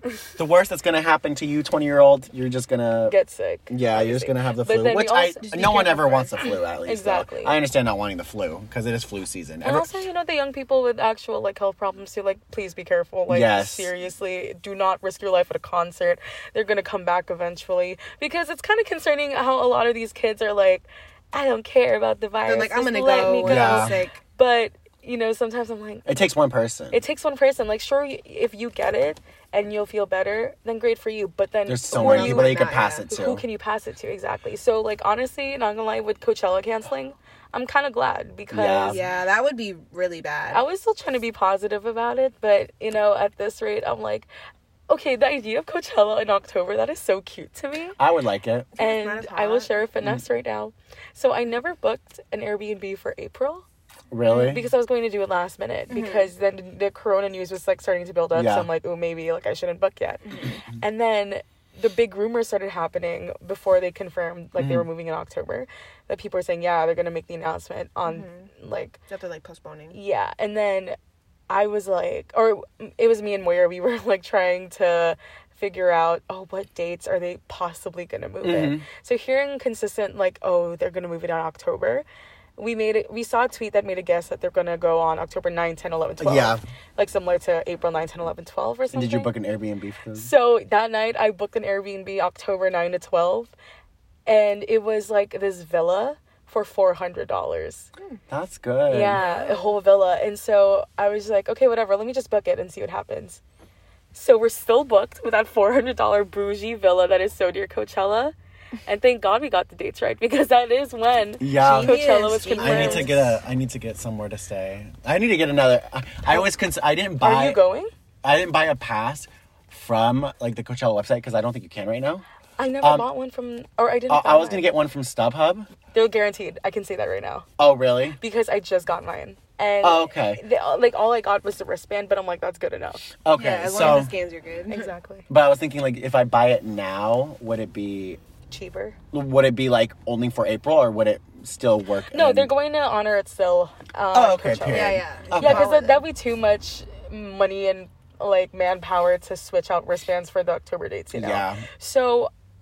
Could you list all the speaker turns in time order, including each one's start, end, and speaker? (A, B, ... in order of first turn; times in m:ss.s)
0:00.4-0:03.2 A
0:03.1-0:06.2 B
0:03.7-0:09.9 A
0:05.5-0:06.3 C
0:06.8-0:07.6 B
0:09.6-0:26.2 B
0:13.3-0:13.9 A
0:22.4-0:24.2 C
0:23.4-0:24.0 A
0:26.0-0:27.0 A
0:26.9-0:39.0 B
0:31.7-0:33.4 A
0:31.9-0:33.1 C
0:38.5-0:39.0 A
0:38.9-0:40.6 C
0:40.5-0:44.3 B
0:44.9-0:48.0 B
0:48.0-0:48.7 A
0:48.8-0:49.7 C
0:48.8-0:53.6 B
0:54.1-0:54.6 A
0:54.3-1:09.0 B
0:55.9-0:56.3 C
0:58.3-0:58.7 A
1:00.2-1:00.6 C
1:04.6-1:04.9 A
1:08.1-1:08.5 C
1:09.1-1:10.0 C
1:09.9-1:11.0 B
1:11.5-1:22.1 B
1:18.4-1:18.8 A
1:22.6-1:29.3 B
1:26.2-1:26.6 A
1:28.9-1:30.3 A
1:30.2-1:33.5 B
1:34.2-1:37.9 B
1:38.3-1:39.2 A
1:38.9-1:43.4 B
1:39.2-1:39.7 C
1:44.1-1:48.4 B
1:48.9-1:53.2 B
1:51.4-1:57.6 A
1:51.6-1:53.3 C
1:57.2-1:57.9 B
1:58.2-2:02.2 A
2:02.6-2:04.7 B
2:02.8-2:03.1 A
2:04.1-2:05.7 A
2:05.9-2:07.5 B
2:07.6-2:08.2 A
2:08.2-2:13.0 B
2:09.8-2:10.4 A
2:13.2-2:14.1 A
2:13.3-2:14.9 C
2:14.7-2:15.2 B
2:15.3-2:18.2 A
2:18.5-2:19.0 B
2:19.1-2:22.5 A
2:22.1-2:32.3 B
2:24.1-2:25.7 A
2:24.7-2:26.0 C
2:31.1-2:31.6 A